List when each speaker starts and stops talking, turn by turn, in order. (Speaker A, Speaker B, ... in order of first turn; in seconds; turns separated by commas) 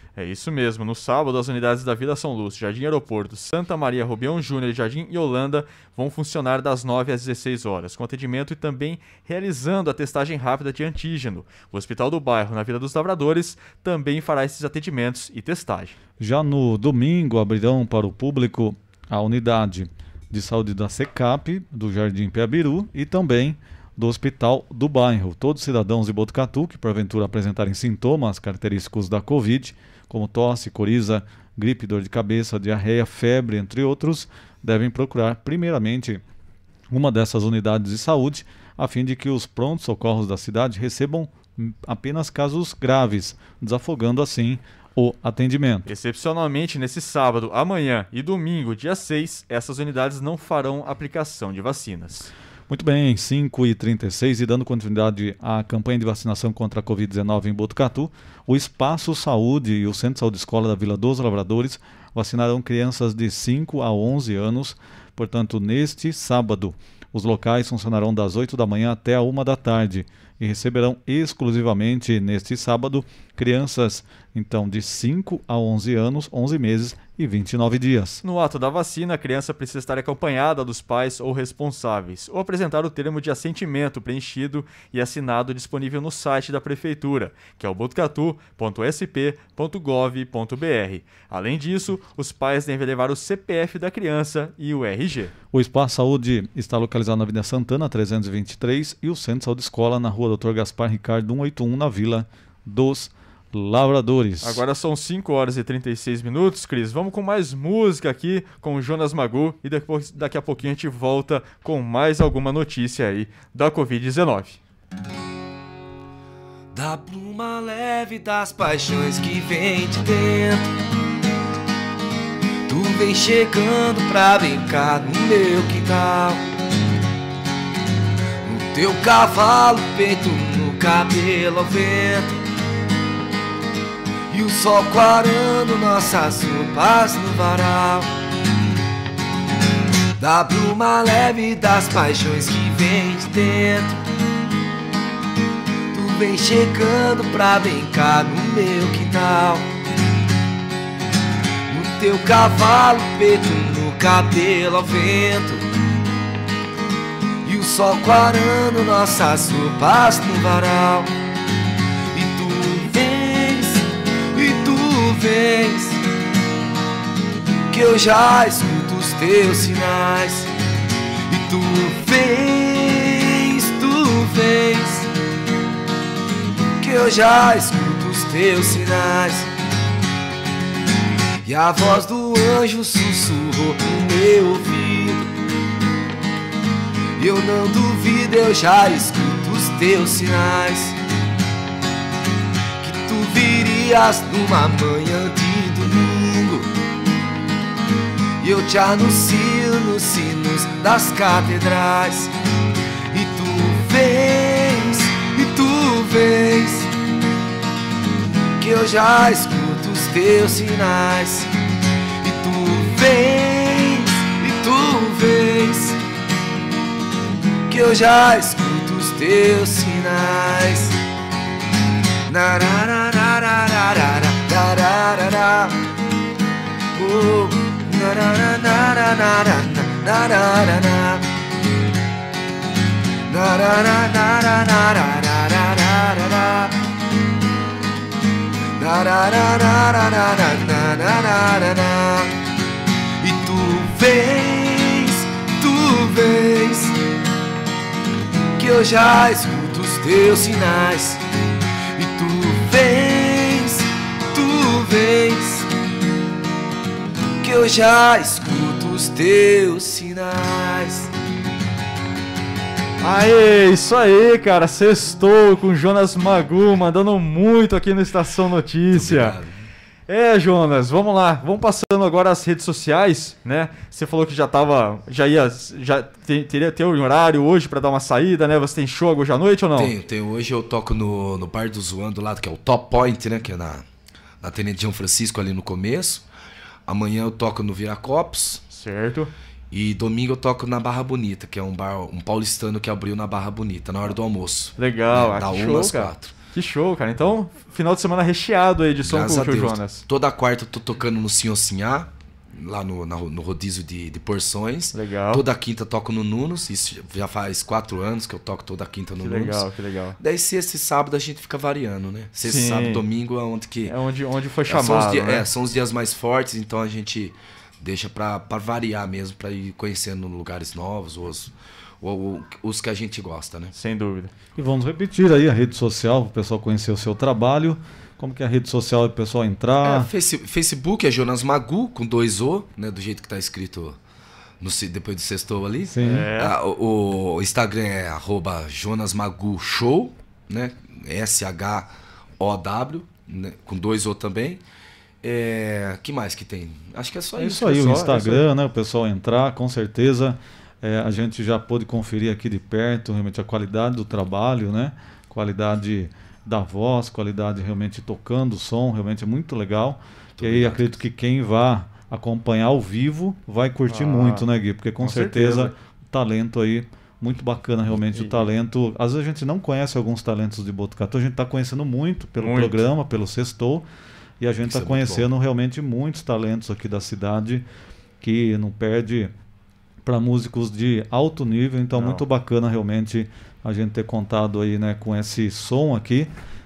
Speaker A: 0.2-16.0, Speaker B: 16.2-36.2, Speaker B: 36.9-45.9, Speaker A: 45.9-52.3, Speaker B: 52.7-78.2, Speaker A: 78.2-95.3, Speaker B: 95.5-104.6, Speaker A: 104.4-114.6, Speaker C: 116.7-120.7, Speaker C: 122.7-126.4, Speaker C: 128.4-132.4, Speaker C: 134.3-138.1, Speaker C: 140.2-144.0, Speaker C: 145.9-149.7, Speaker C: 151.7-155.7, Speaker C: 157.4-161.1, Speaker C: 162.1-166.0, Speaker C: 167.7-170.5, Speaker C: 171.3-175.1, Speaker C: 176.8-179.5, Speaker C: 181.4-185.3, Speaker C: 187.2-191.0, Speaker C: 192.8-196.7, Speaker C: 198.4-202.3, Speaker C: 203.1-206.9, Speaker C: 208.6-211.5, Speaker C: 212.2-216.0, Speaker C: 217.7-221.0, Speaker C: 222.3-225.8, Speaker C: 226.9-231.2, Speaker C: 233.3-236.8, Speaker C: 238.8-242.3, Speaker C: 243.2-247.0, Speaker C: 248.6-251.2, Speaker C: 252.0-255.7, Speaker C: 257.4-261.1, Speaker A: 263.0-269.4, Speaker C: 268.9-269.5, Speaker A: 270.1-279.9, Speaker C: 279.8-283.9, Speaker C: 284.4-286.3, Speaker C: 286.9-288.6, Speaker A: 288.7-289.3, Speaker C: 289.7-296.3, Speaker A: 294.8-300.0, Speaker C: 299.0-309.6, Speaker A: 304.9-305.4, Speaker A: 309.2-310.2, Speaker C: 310.2-313.9, Speaker A: 312.4-313.0, Speaker A: 313.9-315.5, Speaker C: 314.7-323.7, Speaker A: 323.7-324.3, Speaker B: 324.6-330.1, Speaker C: 329.8-334.0, Speaker C: 334.6-344.6, Speaker B: 335.9-336.3, Speaker A: 336.0-336.6, Speaker C: 345.2-348.1, Speaker B: 347.4-373.9, Speaker A: 347.4-348.4, Speaker C: 360.4-361.0, Speaker A: 363.9-364.4, Speaker A: 365.0-365.7, Speaker A: 368.1-368.5, Speaker A: 372.4-372.9, Speaker B: 374.4-377.6, Speaker C: 374.6-375.3, Speaker B: 378.2-379.3, Speaker B: 380.0-386.3, Speaker A: 381.9-382.2